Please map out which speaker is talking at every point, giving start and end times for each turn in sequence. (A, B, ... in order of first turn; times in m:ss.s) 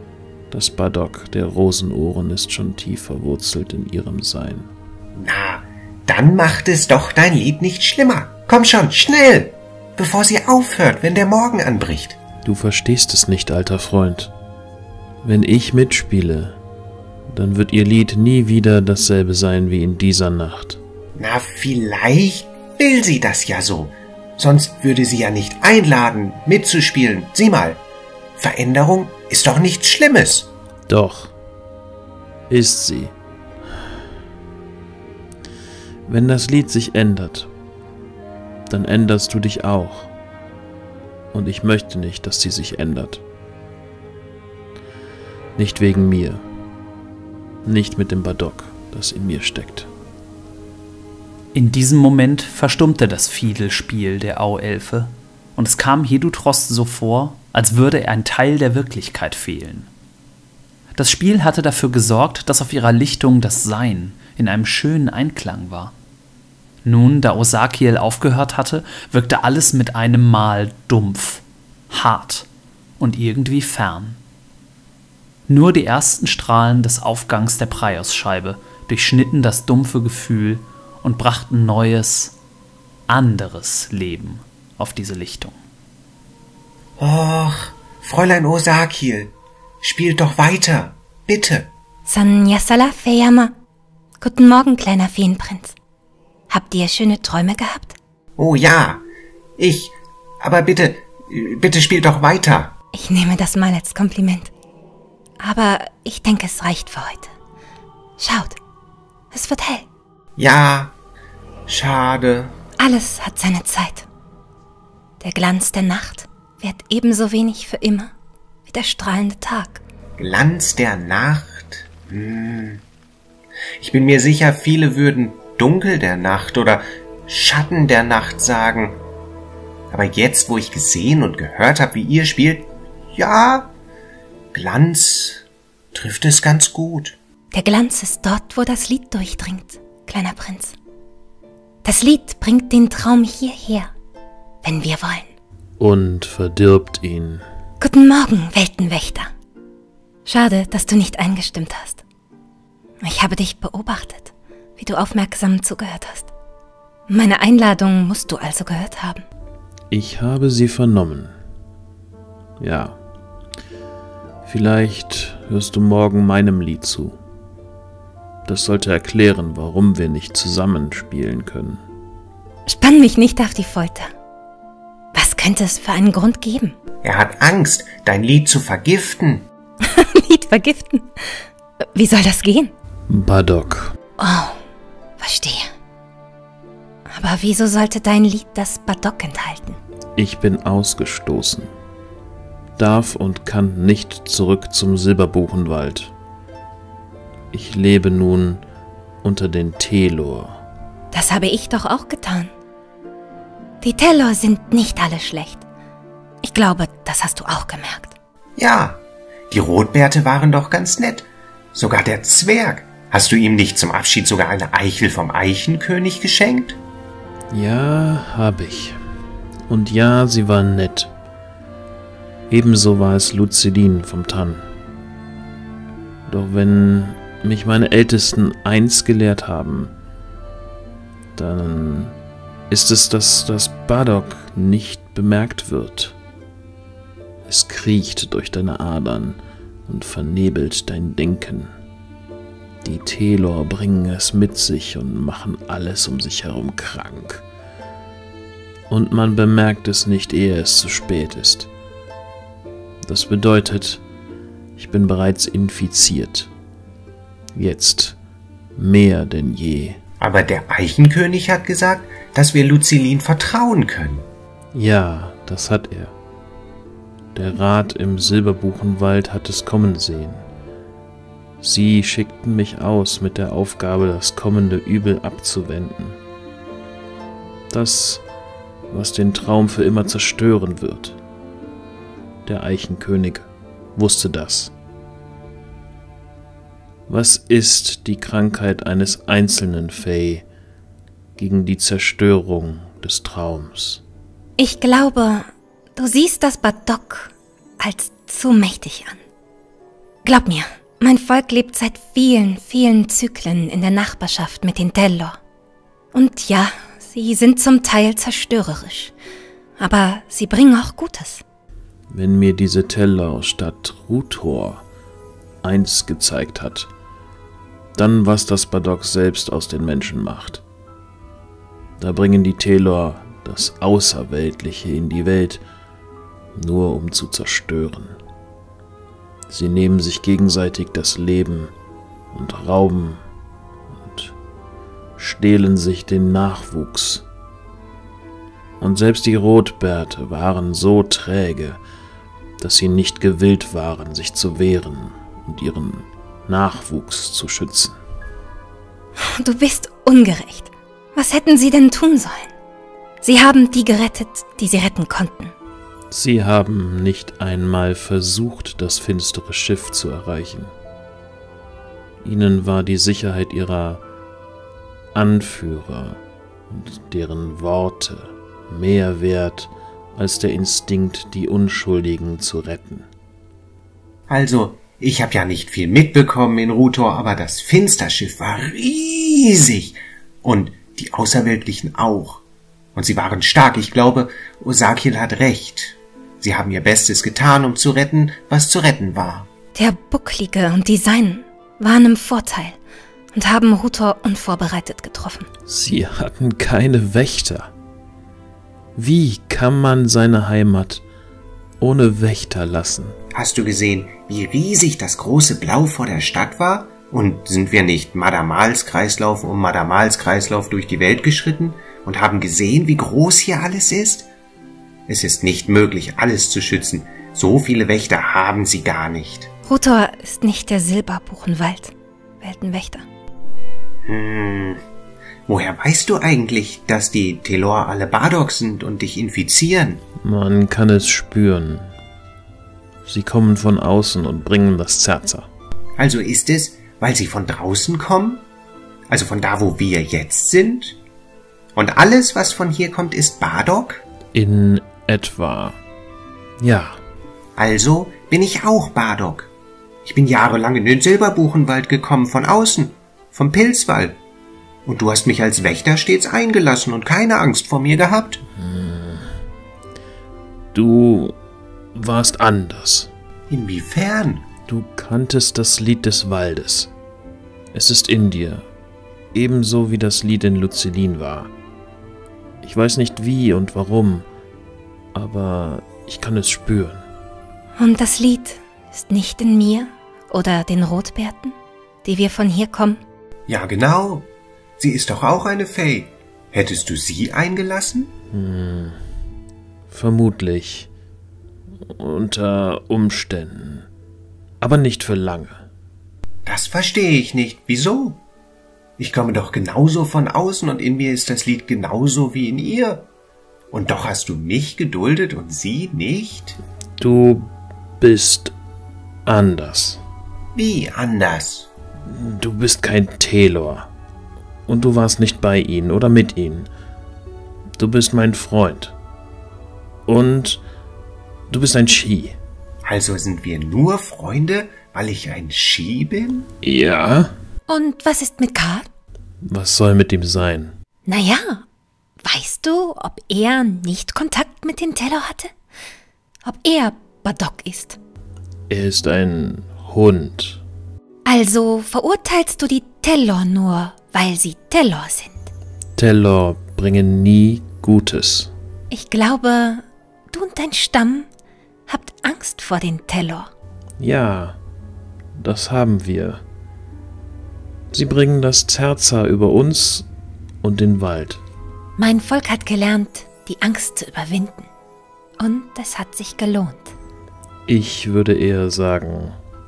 0:00.5-0:04.7 A
0:05.2-0:12.2 B
0:12.4-0:14.3 A
0:15.2-0:16.6 A
0:17.3-0:20.8 A
0:21.2-0:27.8 B
0:28.4-0:30.5 B
0:30.9-0:31.3 A
0:32.5-0:33.1 A
0:36.1-0:37.5 A
0:38.7-0:40.1 A
0:41.3-0:43.2 A
0:45.6-0:46.4 A
0:47.6-0:49.9 A
0:51.5-0:59.9 C
1:01.0-1:05.9 C
1:06.8-1:12.5 C
1:13.0-1:14.2 C
1:15.5-1:22.4 C
1:23.1-1:25.6 C
1:27.0-1:31.7 B
1:32.1-1:33.5 D
1:34.2-1:35.8 D
1:36.5-1:38.0 D
1:38.4-1:39.0 B
1:39.6-1:42.7 B
1:42.9-1:44.5 D
1:45.4-1:47.3 D
1:48.2-1:48.6 D
1:49.3-1:49.9 D
1:50.4-1:51.0 B
1:51.7-1:52.6 B
1:52.8-1:54.1 D
1:55.2-1:58.1 D
1:58.7-1:59.8 D
2:00.2-2:02.8 B
2:03.8-2:09.0 B
2:09.9-2:13.7 B
2:14.5-2:17.2 B
2:17.5-2:20.8 D
2:21.8-2:23.9 D
2:24.6-2:25.3 D
2:25.8-2:27.4 A
2:27.8-2:29.3 D
2:30.3-2:32.0 D
2:33.0-2:36.3 D
2:37.1-2:39.2 D
2:39.9-2:41.4 A
2:42.6-2:43.0 A
2:44.4-2:47.2 A
2:48.4-2:51.8 A
2:52.7-2:54.1 D
2:55.1-2:56.8 D
2:57.0-2:59.5 B
2:59.8-3:02.7 D
3:03.1-3:03.9 A
3:04.2-3:04.6 D
3:05.2-3:05.7 D
3:07.1-3:09.8 D
3:10.2-3:11.7 A
3:12.8-3:16.1 A
3:17.5-3:18.6 A
3:19.2-3:20.6 A
3:21.1-3:22.5 D
3:23.8-3:25.6 D
3:26.4-3:28.2 D
3:28.6-3:36.8 B
3:37.5-3:39.0 A
3:39.7-3:41.1 A
3:42.5-3:44.6 A
3:46.3-3:49.9 A
3:51.4-3:52.2 A
3:52.7-3:56.2 A
3:57.5-4:01.7 A
4:02.8-4:07.4 A
4:08.9-4:11.7 A
4:13.0-4:14.0 A
4:14.8-4:16.5 A
4:17.6-4:18.2 A
4:18.8-4:20.0 A
4:20.2-4:24.3 B
4:24.7-4:26.2 A
4:27.3-4:30.4 A
4:31.6-4:36.2 A
4:37.7-4:38.2 A
4:38.9-4:41.2 A
4:42.5-4:44.7 A
4:47.1-4:50.4 A
4:51.4-4:54.0 A
4:54.6-4:59.2 D
5:00.2-5:05.4 D
5:06.1-5:09.1 D
5:09.8-5:11.4 D
5:12.1-5:14.8 A
5:15.6-5:16.9 A
5:18.0-5:20.6 A
5:22.0-5:25.6 A
5:26.6-5:28.2 A
5:29.5-5:31.7 A
5:32.3-5:33.2 A
5:33.9-5:34.4 A
5:35.2-5:37.2 A
5:38.8-5:41.8 A
5:42.6-5:48.0 A
5:49.2-5:52.5 D
5:53.2-5:55.5 D
5:56.1-6:00.7 A
6:02.2-6:04.0 A
6:05.2-6:13.1 A
6:14.3-6:22.4 B
6:23.0-6:29.5 B
6:29.8-6:32.8 D
6:33.3-6:35.5 D
6:35.7-6:37.7 A
6:39.0-6:41.0 A
6:41.8-6:43.2 A
6:43.4-6:54.3 B
6:55.1-6:59.5 B
6:59.7-7:03.0 D
7:04.1-7:04.8 B
7:05.5-7:10.0 B
7:10.2-7:11.9 A
7:13.1-7:15.5 A
7:16.0-7:18.4 B
7:19.1-7:21.0 B
7:21.8-7:24.0 B
7:24.3-7:25.8 A
7:26.6-7:27.0 A
7:27.6-7:29.5 B
7:30.0-7:34.2 B
7:34.8-7:38.4 B
7:38.6-7:39.4 A
7:40.7-7:41.4 A
7:42.0-7:43.1 A
7:43.5-7:44.4 B
7:44.7-7:46.9 A
7:47.7-7:48.7 A
7:49.3-7:51.5 A
7:52.6-7:54.3 A
7:55.1-7:57.0 A
7:57.8-8:03.0 D
8:03.5-8:04.3 B
8:04.8-8:08.1 B
8:08.3-8:09.0 A
8:09.9-8:10.9 A
8:11.8-8:13.9 A
8:14.6-8:15.6 A
8:16.5-8:18.2 B
8:19.0-8:23.1 B
8:23.7-8:26.6 B
8:27.0-8:28.5 A
8:29.3-8:30.0 A
8:30.6-8:31.7 B
8:32.1-8:33.9 A
8:34.7-8:36.7 A
8:37.8-8:39.0 A
8:40.1-8:40.6 A
8:41.5-8:42.4 A
8:42.8-8:46.5 B
8:46.6-8:47.3 A
8:47.7-8:48.9 D
8:49.4-8:50.7 A
8:51.1-8:51.6 D
8:52.2-8:55.5 D
8:56.4-8:58.0 D
8:58.7-9:00.6 A
9:01.3-9:05.5 D
9:06.0-9:08.5 A
9:08.9-9:11.3 D
9:11.9-9:13.5 D
9:14.0-9:14.6 A
9:15.4-9:16.4 A
9:17.9-9:20.1 A
9:20.6-9:21.4 A
9:22.0-9:24.7 D
9:25.4-9:26.9 D
9:27.7-9:29.4 A